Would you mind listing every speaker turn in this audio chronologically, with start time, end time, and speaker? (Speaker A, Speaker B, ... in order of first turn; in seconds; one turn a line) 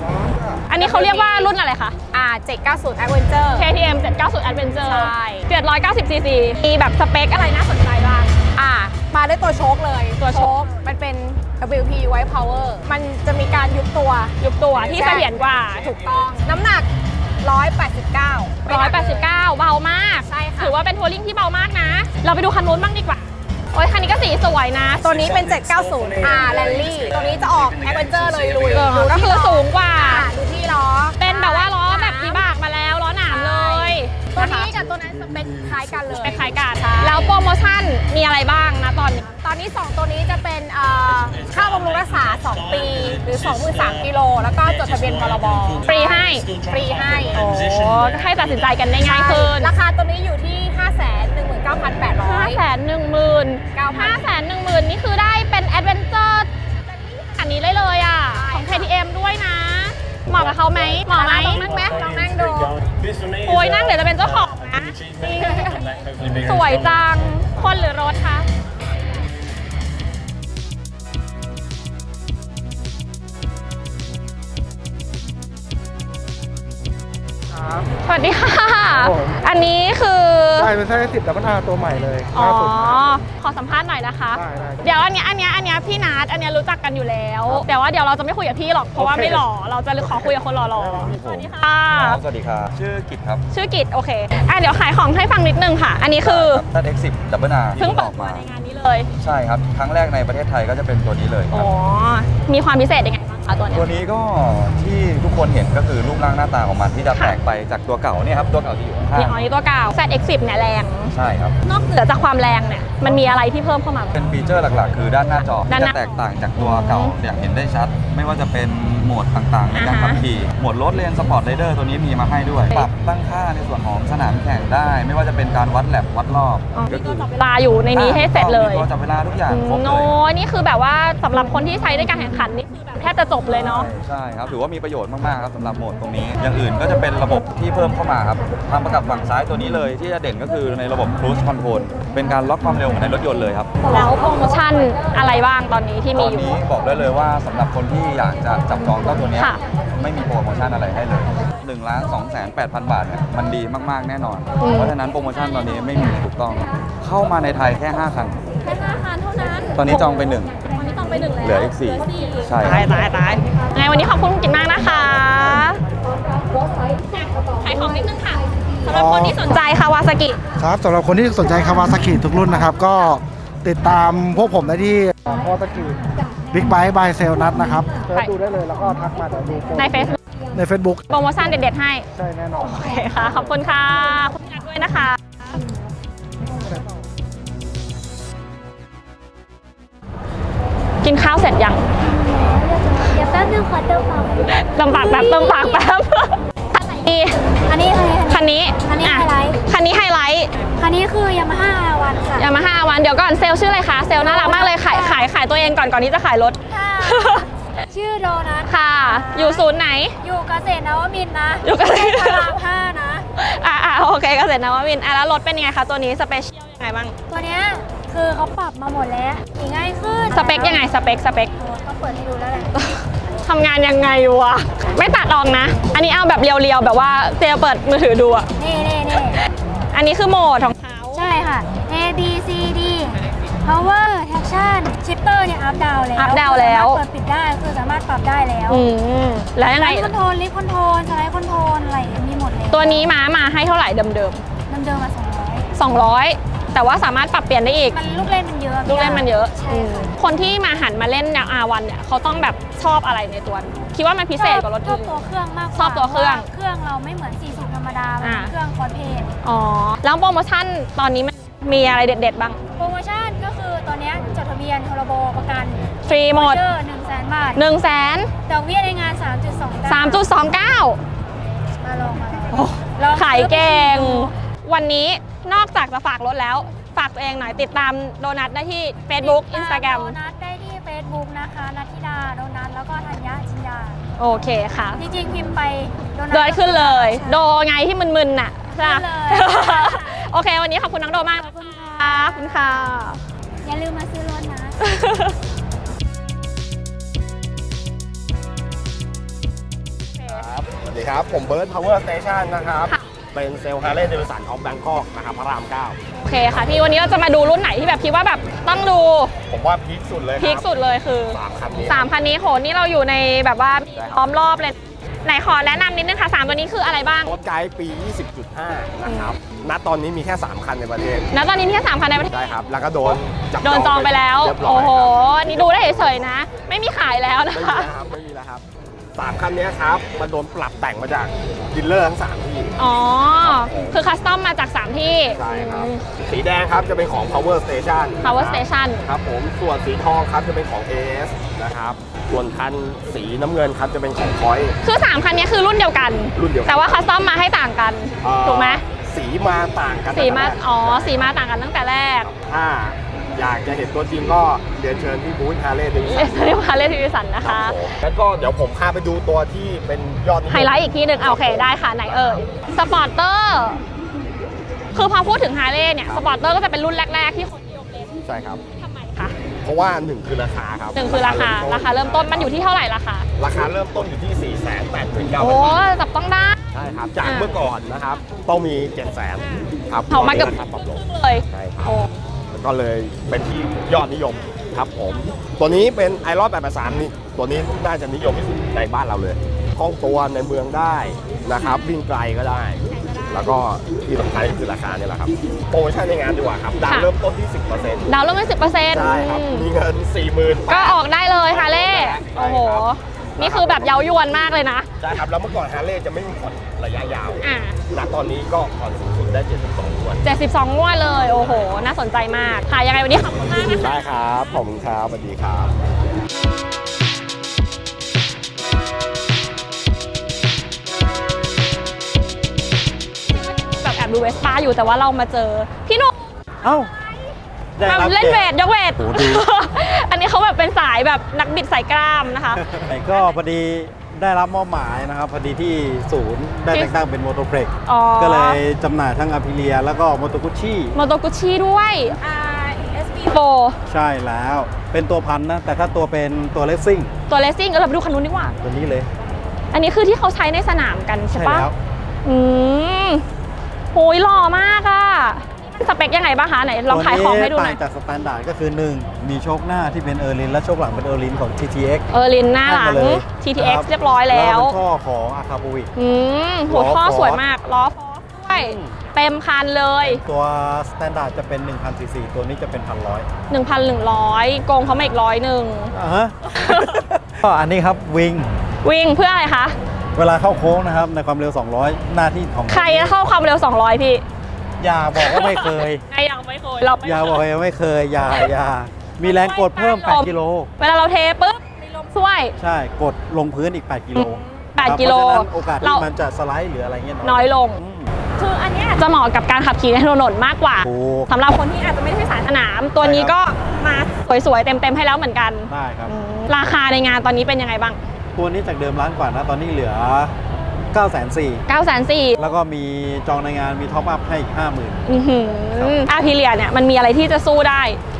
Speaker A: 0.1-0.4
Speaker B: 0.7-1.9
Speaker C: 0.7-1.5
Speaker C: 2.1-3.7
Speaker B: 3.5-8.3
Speaker C: 4.8-5.5
Speaker C: 8.5-15.3
Speaker B: 10.2-10.7
Speaker B: 14.4-16.4
Speaker C: 16.0-16.9
Speaker C: 17.4-19.3
Speaker B: 18.6-25.4
Speaker C: 20.2-20.7
Speaker C: 25.0-32.4
Speaker B: 28.6-30.3
Speaker B: 31.2-34.8
Speaker C: 33.3-37.3
Speaker B: 36.2-39.3
Speaker C: 39.3-47.5
Speaker B: 45.8-46.5
Speaker B: 47.3-49.7
Speaker C: 49.0-52.6
Speaker B: 52.2-56.5
Speaker C: 53.7-54.2
Speaker C: 56.8-57.5
Speaker B: 57.3-62.7
Speaker C: 58.3-58.9
Speaker C: 61.0-62.8
Speaker B: 63.4-68.5
Speaker A: 77.5-77.9
Speaker B: 78.0-80.7
Speaker A: 78.9-79.3
Speaker A: 80.6-83.2
Speaker B: 82.3-92.2
Speaker A: 84.3-84.8
Speaker D: 90.8-91.2
Speaker E: 91.0-93.4
Speaker B: 93.5-96.6
Speaker E: 96.2-98.5
Speaker B: 97.8-99.1
Speaker E: 99.2-101.7
Speaker B: 101.5-103.9
Speaker E: 103.7-109.4
Speaker B: 109.1-111.1
Speaker E: 111.1-111.5
Speaker B: 111.6-114.2
Speaker E: 114.2-127.3
Speaker B: 115.7-117.2
Speaker B: 119.7-120.2
Speaker B: 126.7-128.9
Speaker E: 127.9-130.1
Speaker B: 129.5-133.9
Speaker E: 133.5-143.7
Speaker B: 143.9-146.6
Speaker E: 146.1-158.4
Speaker B: 154.6-154.9
Speaker B: 158.6-165.8
Speaker E: 159.8-160.5
Speaker E: 161.4-162.9
Speaker B: 167.1-170.4
Speaker A: 168.9-169.8
Speaker A: 170.6-181.0
Speaker B: 179.8-180.2
Speaker B: 181.1-182.0
Speaker A: 182.1-183.6
Speaker B: 182.6-185.6
Speaker B: 191.0-191.8
Speaker F: 192.1-195.8
Speaker B: 194.5-197.4
Speaker F: 197.7-199.6
Speaker B: 198.3-200.5
Speaker F: 200.8-202.5
Speaker B: 202.4-207.4
Speaker F: 204.2-205.3
Speaker F: 206.7-209.6
Speaker B: 208.7-210.2
Speaker F: 210.2-213.2
Speaker B: 211.6-212.6
Speaker B: 213.3-217.2
Speaker F: 217.3-220.9
Speaker B: 220.3-221.5
Speaker F: 221.5-222.7
Speaker B: 222.7-228.5
Speaker F: 228.6-229.4
Speaker B: 229.9-231.3
Speaker F: 231.1-238.8
Speaker B: 236.1-237.0
Speaker B: 238.7-240.1
Speaker F: 239.8-243.1
Speaker B: 242.7-244.4
Speaker F: 244.7-245.7
Speaker B: 245.7-248.0
Speaker F: 247.9-250.1
Speaker B: 248.8-255.2
Speaker F: 254.3-259.3
Speaker B: 255.7-256.5
Speaker B: 258.2-258.5
Speaker B: 259.4-262.6
Speaker F: 262.8-267.6
Speaker B: 266.1-266.6
Speaker B: 267.5-268.3
Speaker F: 268.4-270.2
Speaker B: 269.9-271.0
Speaker F: 271.8-274.3
Speaker B: 272.5-280.1
Speaker F: 279.1-284.0
Speaker B: 284.2-285.0
Speaker F: 284.9-287.4
Speaker B: 286.3-293.2
Speaker F: 288.8-290.2
Speaker F: 291.4-292.6
Speaker F: 293.6-294.7
Speaker B: 294.8-295.4
Speaker B: 300.1-300.5
Speaker D: 300.3-306.9
Speaker B: 306.2-309.3
Speaker D: 309.5-310.7
Speaker B: 310.4-317.3
Speaker D: 311.3-312.1
Speaker D: 313.9-314.2
Speaker D: 317.2-321.3
Speaker B: 319.1-319.3
Speaker B: 321.3-322.4
Speaker D: 322.2-326.2
Speaker B: 323.0-327.9
Speaker D: 327.5-328.6
Speaker D: 329.1-332.7
Speaker B: 332.8-336.0
Speaker D: 333.4-334.0
Speaker D: 335.3-344.8
Speaker B: 338.2-339.0
Speaker B: 344.8-348.8
Speaker D: 346.4-347.0
Speaker D: 348.2-351.3
Speaker B: 350.1-352.3
Speaker D: 352.2-356.4
Speaker B: 356.1-357.8
Speaker D: 357.4-362.7
Speaker B: 360.5-363.8
Speaker B: 364.9-368.1
Speaker D: 368.2-368.6
Speaker B: 368.8-369.4
Speaker D: 369.6-372.6
Speaker B: 370.9-373.2
Speaker D: 373.4-375.8
Speaker B: 375.4-376.6
Speaker D: 376.7-381.9
Speaker B: 377.2-377.6
Speaker B: 379.4-382.1
Speaker D: 382.5-398.1
Speaker B: 392.9-393.5
Speaker B: 398.1-399.6
Speaker D: 398.9-404.0
Speaker B: 400.7-405.2
Speaker D: 405.0-410.2
Speaker B: 407.4-407.8
Speaker B: 410.2-414.1
Speaker D: 411.2-411.7
Speaker D: 413.7-415.7
Speaker B: 423.5-426.3
Speaker G: 426.6-426.9
Speaker G: 427.8-429.4
Speaker B: 427.8-433.4
Speaker G: 432.5-440.9
Speaker B: 437.9-438.6
Speaker B: 440.9-442.2
Speaker C: 442.2-443.4
Speaker B: 443.3-443.8
Speaker G: 443.9-447.1
Speaker B: 447.3-448.5
Speaker G: 448.6-449.1
Speaker B: 449.7-451.7
Speaker G: 451.3-451.8
Speaker B: 452.2-453.2
Speaker B: 453.9-457.8
Speaker G: 456.9-462.0
Speaker B: 462.1-464.8
Speaker G: 462.6-465.9
Speaker B: 465.9-470.2
Speaker G: 466.7-467.4
Speaker G: 468.5-468.9
Speaker G: 470.0-473.3
Speaker B: 473.5-475.9
Speaker G: 475.9-478.5
Speaker B: 476.4-477.0
Speaker B: 478.8-479.7
Speaker G: 480.1-483.1
Speaker B: 482.7-484.2
Speaker G: 484.8-486.0
Speaker B: 485.1-487.4
Speaker G: 487.0-490.7
Speaker B: 489.2-492.5
Speaker G: 492.6-498.1
Speaker B: 494.1-496.0
Speaker B: 497.2-497.8
Speaker B: 498.4-508.0
Speaker G: 500.8-501.3
Speaker G: 503.0-503.3
Speaker G: 505.7-506.1
Speaker G: 508.3-510.3
Speaker G: 510.9-511.6
Speaker B: 511.7-512.4
Speaker G: 512.4-515.0
Speaker B: 515.1-518.0
Speaker G: 515.8-516.0